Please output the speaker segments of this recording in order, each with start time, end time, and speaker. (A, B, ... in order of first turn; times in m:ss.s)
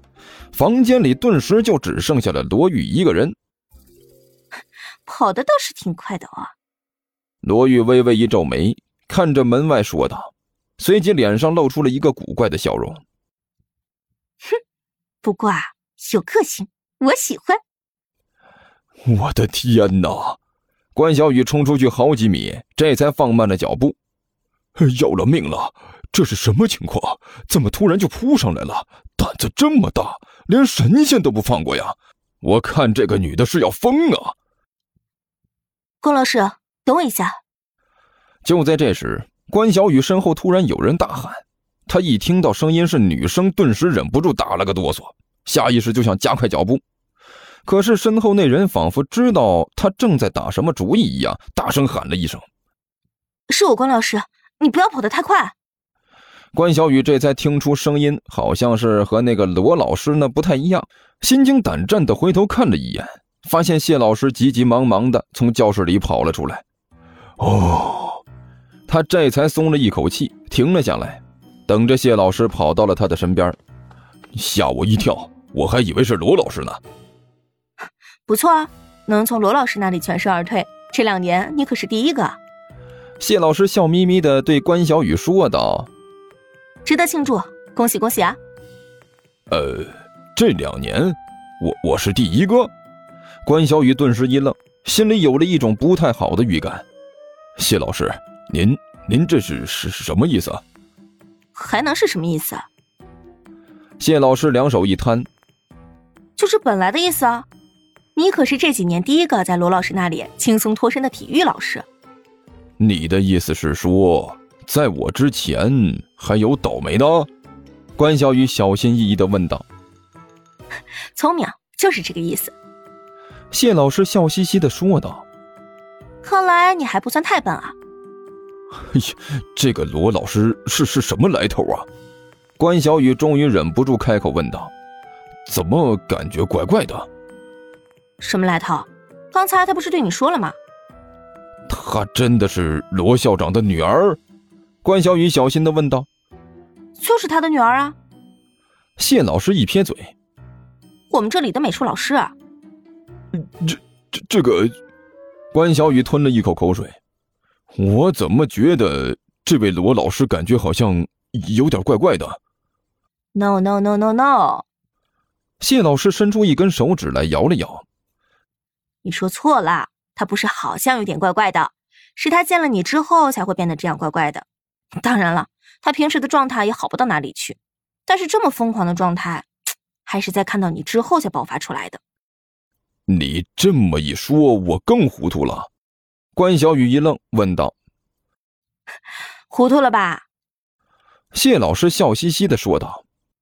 0:00.5-0:03.4 A
0:05.1-0:06.5 B
0:07.4-0:13.0 A
0:15.2-0:17.6 B
0:19.0-0:20.4 A
0:21.0-0:24.0 A
0:24.8-0:34.4 A
0:36.0-0:37.4 B
0:38.4-0:46.8 A
0:47.6-0:52.4 A
0:53.5-0:55.5 B
0:56.5-1:06.6 A
1:07.4-1:08.2 A
1:08.9-1:13.6 A
1:14.3-1:16.8 A
1:18.3-1:22.4 B
1:23.2-1:25.9 A
1:26.8-1:28.4 B
1:29.5-1:32.7 A
1:33.4-1:36.8 A
1:37.6-1:40.6 A
1:41.6-1:42.7 B
1:44.0-1:45.3 A
1:46.4-1:47.5 B
1:48.2-1:51.9 B
1:52.8-1:57.3 A
1:58.0-1:59.6 A
2:01.2-2:02.5 B
2:03.5-2:05.2 A
2:06.2-2:07.8 B
2:08.7-2:11.9 A
2:12.6-2:14.7 A
2:15.5-2:17.1 A
2:18.2-2:20.6 B
2:21.7-2:24.2 A
2:24.8-2:26.1 A
2:27.0-2:28.0 B
2:29.0-2:30.1 A
2:31.1-2:32.3 B
2:33.3-2:34.8 A
2:35.5-2:37.0 A
2:37.7-2:42.4 A
2:43.3-2:44.6 B
2:45.6-2:47.8 A
2:49.0-2:54.5 B
2:55.0-2:59.5 B
3:00.1-3:02.0 B
3:03.1-3:05.7 A
3:06.4-3:07.7 A
3:09.5-3:10.2 B
3:11.3-3:13.0 A